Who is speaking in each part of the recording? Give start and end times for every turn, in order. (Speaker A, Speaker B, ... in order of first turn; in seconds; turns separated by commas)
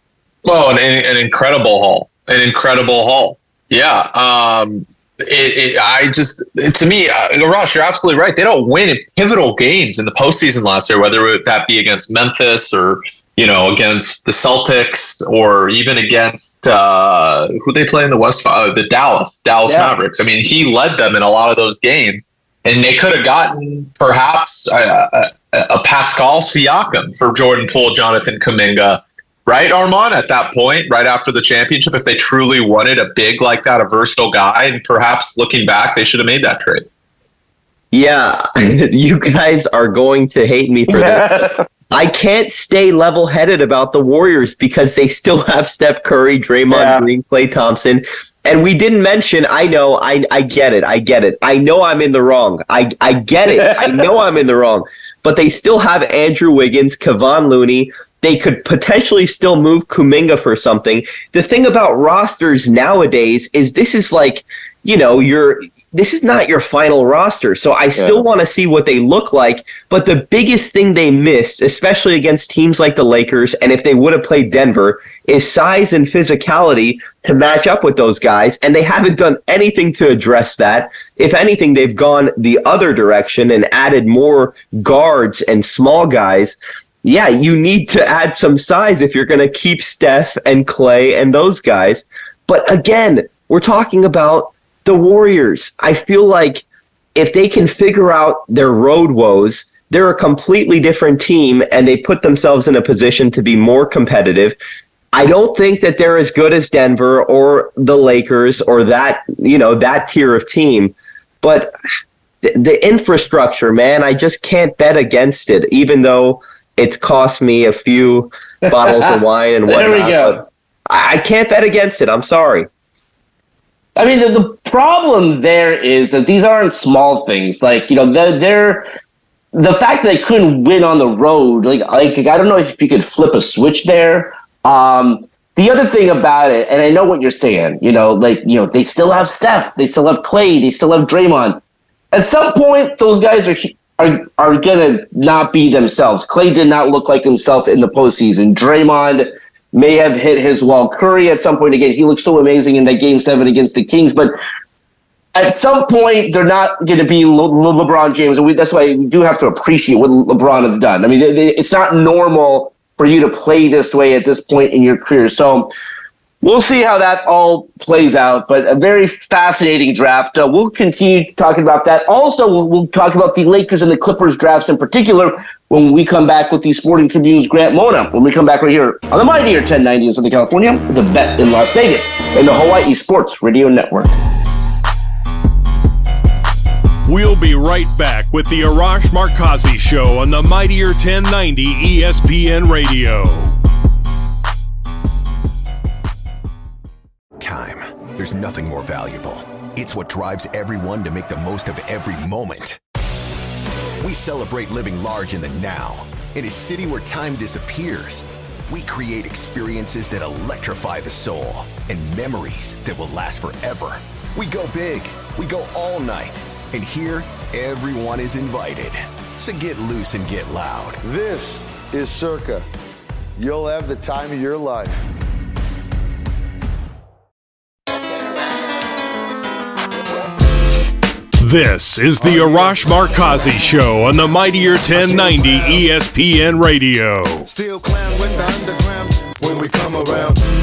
Speaker A: 0.4-36.9, Speaker B: 19.7-19.9, Speaker C: 37.9-41.3, Speaker B: 40.9-41.6, Speaker C: 41.9-96.6, Speaker B: 46.7-47.0, Speaker B: 53.5-54.0, Speaker B: 68.0-68.2, Speaker C: 97.2-104.6, Speaker C: 105.1-111.7, Speaker C: 112.4-122.7, Speaker B: 118.7-119.2, Speaker B: 119.7-120.4, Speaker B: 124.0-128.8, Speaker B: 129.5-141.6, Speaker B: 142.1-154.3, Speaker B: 155.3-165.7, Speaker B: 166.4-184.2, Speaker D: 187.0-193.5, Speaker E: 197.4-202.8, Speaker E: 204.0-221.0, Speaker F: 221.0-222.6, Speaker F: 223.4-225.0, Speaker D: 231.4-237.5, Speaker F: 232.2-233.6, Speaker F: 234.9-235.9, Speaker F: 237.4-240.4